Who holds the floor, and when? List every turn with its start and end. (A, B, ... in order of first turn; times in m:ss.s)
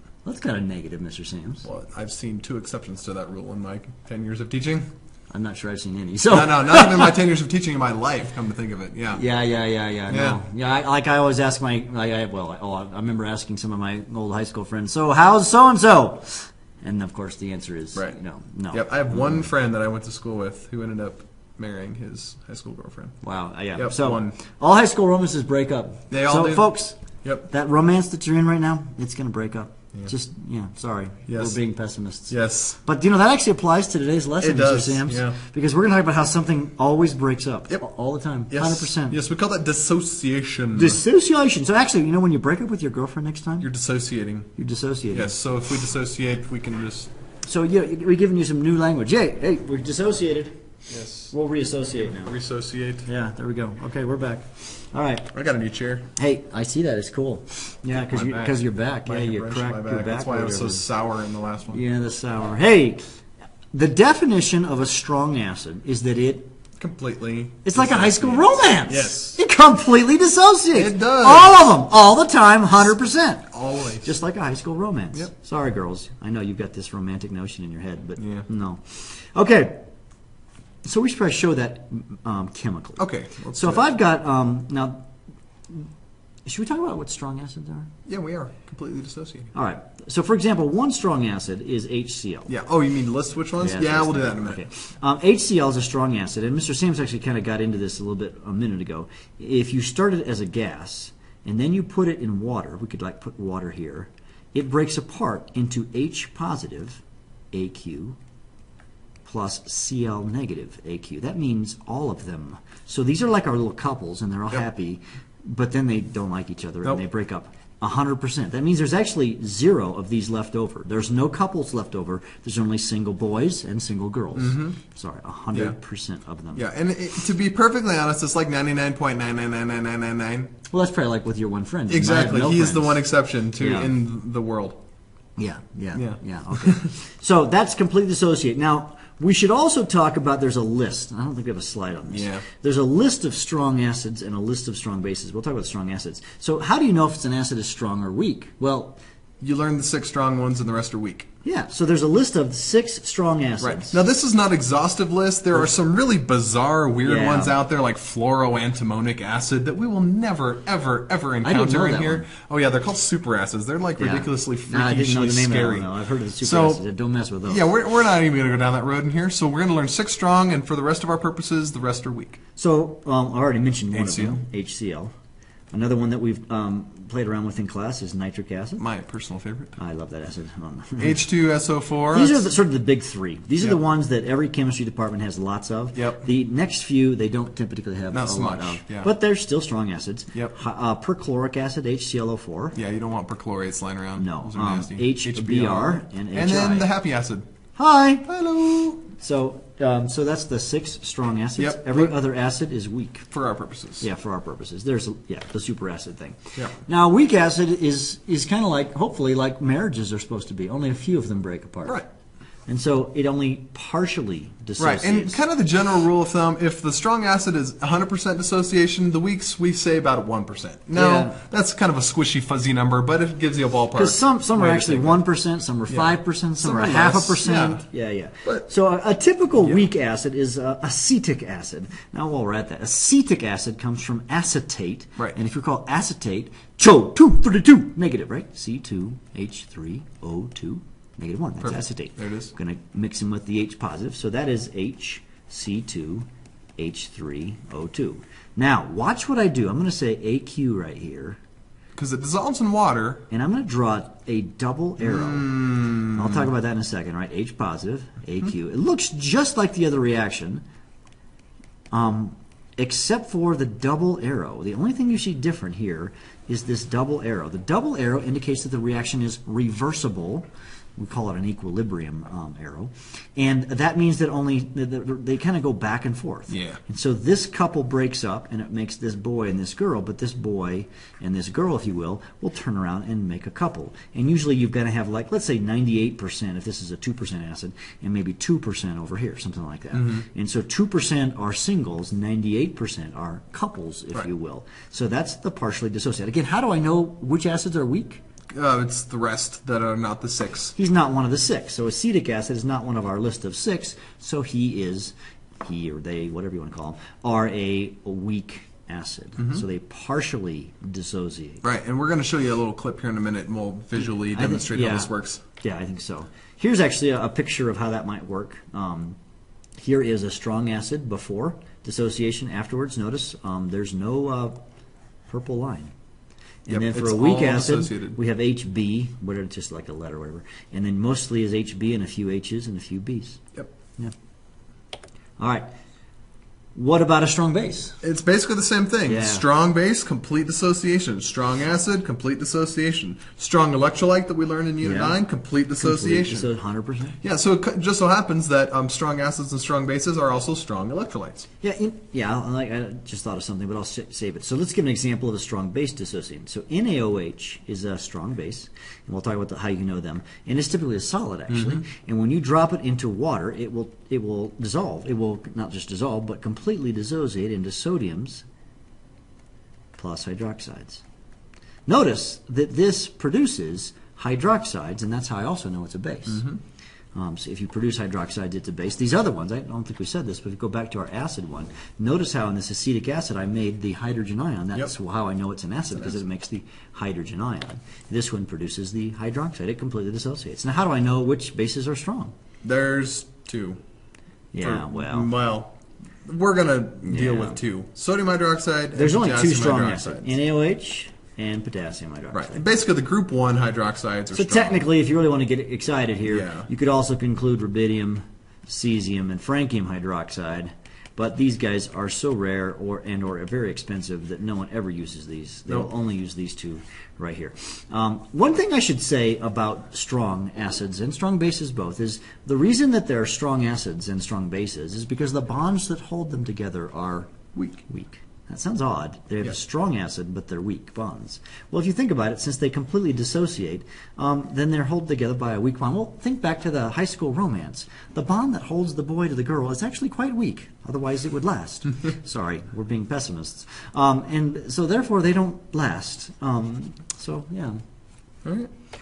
0:00.2-0:01.7 A
0:01.6-0:04.9 B
0:05.3-0:07.1 A
0:06.3-0:09.2 B
0:09.1-0:19.4 A
0:10.1-0:10.4 B
0:18.7-0:23.2 B
0:23.2-0:39.2 A
0:23.7-0:24.3 B
0:26.1-0:26.7 B
0:27.2-0:27.5 B
0:31.3-0:31.6 B
0:32.3-0:32.8 B
0:34.4-0:35.4 B
0:38.5-0:41.0 B
0:40.7-0:43.7 A
0:43.6-0:44.5 B
0:44.6-0:45.3 A
0:45.1-0:47.1 B
0:47.4-0:50.6 A
0:50.9-0:51.3 B
0:51.3-0:52.3 A
0:52.2-0:53.1 B
0:53.0-0:55.3 A
0:55.3-0:56.1 B
0:56.2-1:00.8 A
0:58.0-1:01.8 B
1:01.7-1:03.2 A
1:03.7-1:06.5 A
1:06.8-1:09.4 B
1:07.6-1:19.8 A
1:10.7-1:11.7 B
1:13.5-1:14.1 B
1:18.2-1:18.5 B
1:20.8-1:25.0 A
1:23.0-1:23.8 B
1:26.4-1:27.9 A
1:28.0-1:29.5 B
1:29.5-1:32.5 A
1:32.5-1:34.6 B
1:33.6-1:48.2 A
1:49.2-2:06.6 A
2:04.3-2:04.8 B
2:06.5-2:10.5 B
2:10.7-2:13.0 A
2:11.9-2:14.8 B
2:13.6-2:13.9 A
2:15.4-2:29.0 A
2:15.9-2:16.9 B
2:22.1-2:22.4 B
2:29.4-2:31.3 B
2:31.4-2:34.0 A
2:33.6-2:45.9 B
2:37.0-2:37.6 A
2:41.4-2:42.3 A
2:44.0-2:47.7 A
2:46.4-2:46.8 B
2:47.4-2:52.4 B
2:52.6-2:55.1 A
2:53.9-2:54.4 B
2:55.7-2:58.8 A
2:58.8-2:59.8 B
2:59.8-3:01.2 A
3:01.0-3:02.5 B
3:02.1-3:12.8 A
3:05.9-3:06.2 B
3:08.1-3:09.1 B
3:12.7-3:17.4 B
3:14.2-3:16.9 A
3:17.7-3:18.3 A
3:18.2-3:19.0 B
3:19.2-3:23.3 A
3:21.6-3:22.1 B
3:23.3-3:24.1 B
3:24.0-3:32.0 A
3:32.7-3:35.4 A
3:34.8-3:45.2 B
3:40.9-3:41.4 A
3:43.9-4:11.4 A
3:45.9-3:47.8 B
4:01.6-4:02.5 B
4:11.9-4:13.2 B
4:13.3-4:20.6 A
4:15.0-4:16.4 B
4:21.9-4:58.2 A
4:36.5-4:36.8 B
4:58.5-5:00.7 B
5:00.8-5:11.6 A
5:09.4-5:09.6 B
5:11.6-5:15.4 B
5:14.3-5:19.2 A
5:19.8-5:24.6 A
5:25.3-5:25.9 A
5:26.6-5:33.4 A
5:26.7-5:28.2 B
5:35.4-5:35.6 A
5:36.7-5:38.0 A
5:38.0-5:46.5 B
5:39.0-5:39.4 A
5:44.8-5:45.2 A
5:45.8-5:47.2 A
5:47.2-5:51.5 B
5:51.6-6:08.4 A
6:01.5-6:01.8 B
6:10.0-6:11.0 A
6:11.9-6:16.4 A
6:16.3-6:16.6 B
6:17.1-6:32.3 A
6:32.6-6:33.8 B
6:34.5-6:35.3 A
6:34.6-6:35.7 B
6:36.2-6:40.4 B
6:37.1-6:37.6 A
6:38.9-6:42.6 A
6:42.3-6:44.8 B
6:44.3-7:07.3 A
6:46.2-6:46.7 B
7:07.5-7:07.8 B
7:07.8-7:27.8 A
7:28.4-7:28.7 B